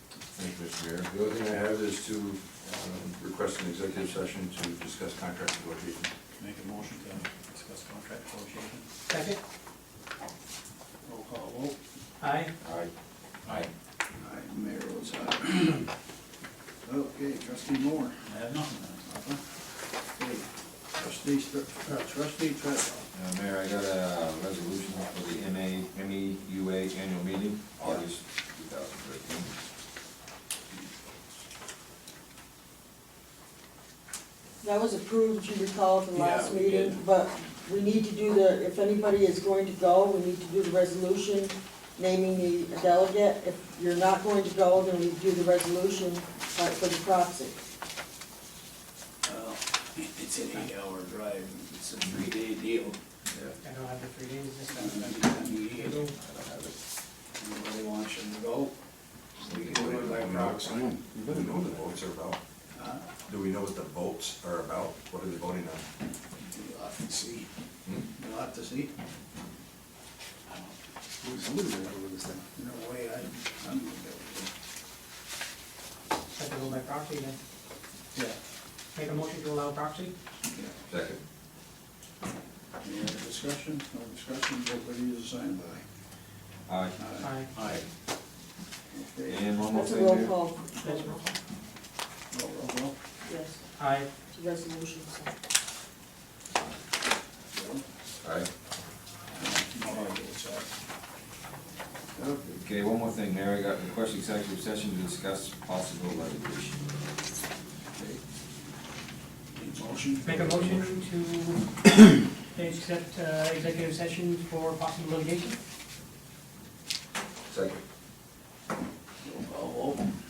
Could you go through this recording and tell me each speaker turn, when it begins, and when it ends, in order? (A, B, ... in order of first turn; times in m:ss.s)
0:00.3-0:06.1 A
0:06.4-0:08.8 B
0:09.1-0:09.4 C
0:11.0-0:11.8 D
0:12.2-0:12.5 C
0:12.6-0:12.9 A
0:13.4-0:13.7 A
0:14.1-0:15.9 D
0:16.8-0:18.3 D
0:19.0-0:19.4 D
0:20.1-0:23.1 D
0:23.1-0:29.5 A
0:27.8-0:28.0 D
0:34.6-0:47.6 E
0:36.1-0:37.0 D
0:49.2-0:53.0 D
0:53.3-0:53.6 A
0:53.6-0:56.2 C
0:54.7-0:56.0 D
0:56.1-0:56.7 A
0:57.4-0:58.7 D
0:59.4-1:01.0 D
0:59.6-1:02.4 A
1:02.7-1:03.2 D
1:03.2-1:05.8 A
1:06.4-1:07.5 D
1:08.0-1:08.9 D
1:10.5-1:10.7 D
1:12.5-1:14.5 D
1:16.4-1:17.4 C
1:18.9-1:20.1 C
1:20.9-1:21.2 A
1:22.8-1:25.8 D
1:26.7-1:27.0 A
1:27.0-1:27.3 D
1:27.2-1:27.5 C
1:27.5-1:27.8 A
1:28.9-1:29.4 D
1:29.2-1:30.3 A
1:29.6-1:31.2 E
1:30.8-1:31.2 C
1:32.3-1:33.0 D
1:33.2-1:35.3 E
1:33.8-1:34.1 C
1:36.5-1:36.8 A
1:37.5-1:37.8 D
1:38.2-1:38.5 A
1:39.3-1:40.7 D
1:42.1-1:42.6 D
1:42.6-1:46.9 A
1:49.5-1:50.3 D
1:50.2-1:51.9 C
1:50.3-1:51.0 A
1:52.5-1:55.6 C
1:57.5-1:57.8 A
1:59.2-2:00.1 D